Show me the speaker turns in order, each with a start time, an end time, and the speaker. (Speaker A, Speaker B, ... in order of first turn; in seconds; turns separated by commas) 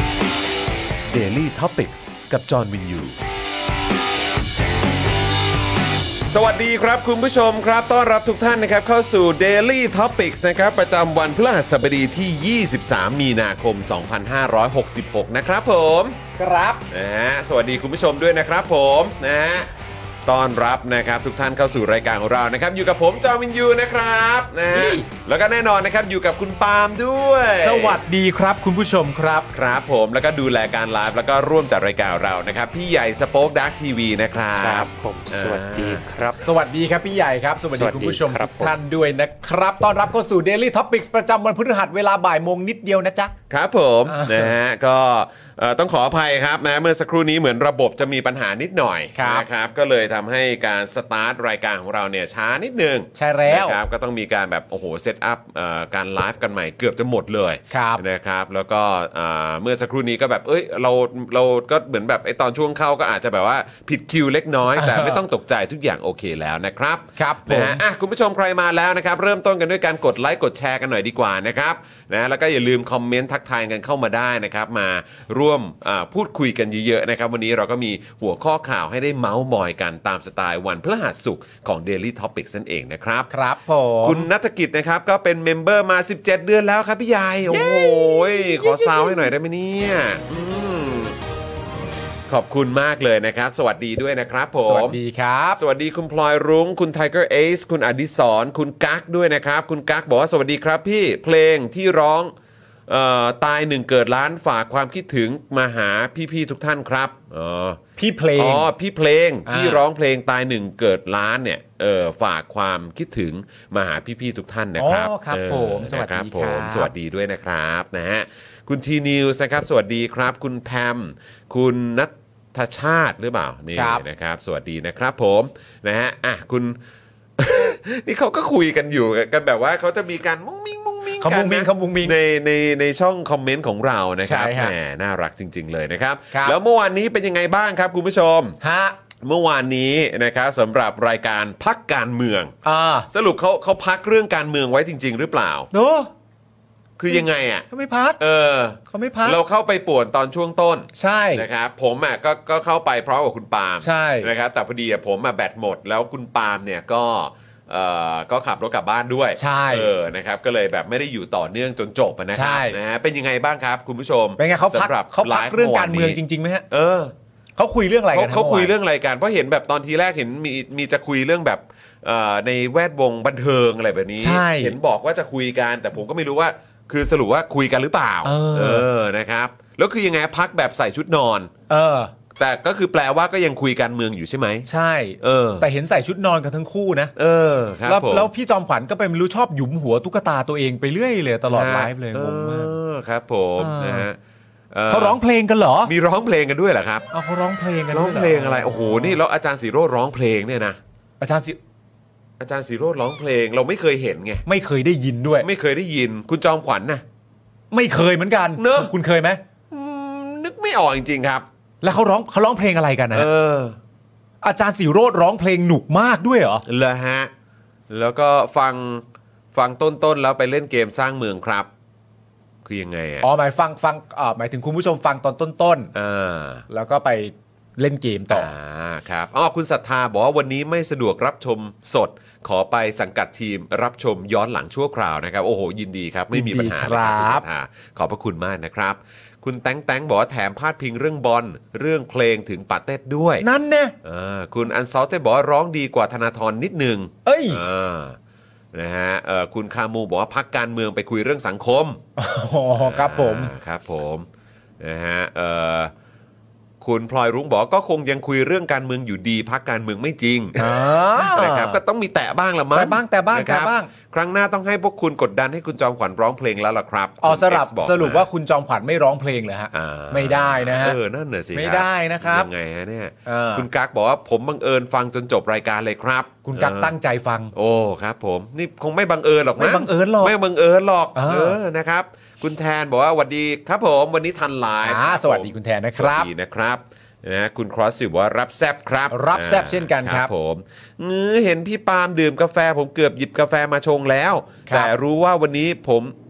Speaker A: 1.1-3.1, Speaker A: 6.3-16.2, Speaker B: 16.4-16.8, Speaker A: 16.9-19.7, Speaker A: 20.2-28.0, Speaker B: 24.7-25.0, Speaker B: 27.6-29.5, Speaker A: 29.5-36.0, Speaker C: 34.6-36.4, Speaker B: 36.3-43.3, Speaker C: 37.7-38.8, Speaker A: 43.5-83.3, Speaker B: 44.1-44.5, Speaker B: 49.1-49.5, Speaker B: 53.1-53.8, Speaker B: 57.7-58.0, Speaker B: 64.8-65.2, Speaker B: 67.2-67.8, Speaker B: 83.3-84.3, Speaker A: 84.0-91.2, Speaker B: 87.5-89.3, Speaker A: 92.3-95.0, Speaker B: 94.6-95.6, Speaker A: 95.6-102.3, Speaker A: 102.9-107.8, Speaker B: 108.0-108.7, Speaker A: 108.3-126.8, Speaker B: 109.5-109.8, Speaker B: 114.8-116.9, Speaker B: 123.7-124.0, Speaker A: 127.4-138.6, Speaker B: 131.2-132.2, Speaker B: 134.2-134.7, Speaker B: 136.3-136.6, Speaker B: 138.6-139.0, Speaker A: 139.2-142.5, Speaker B: 142.6-143.1, Speaker A: 143.1-145.7, Speaker B: 145.7-146.1, Speaker A: 147.0-147.7, Speaker B: 147.1-148.2, Speaker A: 148.2-166.2, Speaker B: 148.9-149.4, Speaker B: 150.9-151.4, Speaker B: 153.8-154.3, Speaker B: 159.4-159.9, Speaker B: 162.3-162.8, Speaker B: 164.4-166.6, Speaker A: 166.7-167.1, Speaker B: 167.6-168.7, Speaker A: 168.1-181.5, Speaker B: 174.2-174.8, Speaker B: 178.2-178.9, Speaker B: 181.7-182.1, Speaker A: 182.3-184.7, Speaker B: 184.6-187.1, Speaker A: 185.2-185.7, Speaker A: 187.2-188.3, Speaker B: 187.8-192.8, Speaker A: 191.5-194.2, Speaker B: 193.6-194.1, Speaker A: 194.7-195.2, Speaker B: 194.9-195.9, Speaker A: 195.8-197.1, Speaker B: 197.1-199.2, Speaker A: 197.9-200.8, Speaker B: 201.2-201.6, Speaker A: 202.4-204.4, Speaker B: 204.4-205.5, Speaker A: 205.4-207.0, Speaker B: 207.7-209.4, Speaker A: 208.6-208.9, Speaker A: 209.7-211.4, Speaker B: 211.8-213.3, Speaker A: 213.1-213.8, Speaker B: 214.4-216.6, Speaker A: 216.7-217.3, Speaker A: 217.9-221.7, Speaker A: 222.6-223.3, Speaker B: 223.2-225.9, Speaker A: 225.9-226.6, Speaker B: 226.7-228.5, Speaker A: 228.3-243.4, Speaker B: 236.3-237.4, Speaker B: 243.4-243.9, Speaker A: 244.0-248.2, Speaker B: 247.2-247.6, Speaker A: 248.7-252.0, Speaker B: 252.2-253.5, Speaker A: 252.8-254.3, Speaker A: 254.8-255.9, Speaker A: 256.8-268.3, Speaker B: 260.6-261.8, Speaker B: 262.7-263.9, Speaker B: 267.2-271.0, Speaker A: 269.7-276.9, Speaker B: 271.5-272.5, Speaker B: 273.2-273.6, Speaker B: 276.4-277.5, Speaker A: 277.5-296.1, Speaker B: 279.6-280.3, Speaker B: 281.1-281.6, Speaker B: 284.8-286.3, Speaker B: 289.1-290.3, Speaker B: 294.6-294.9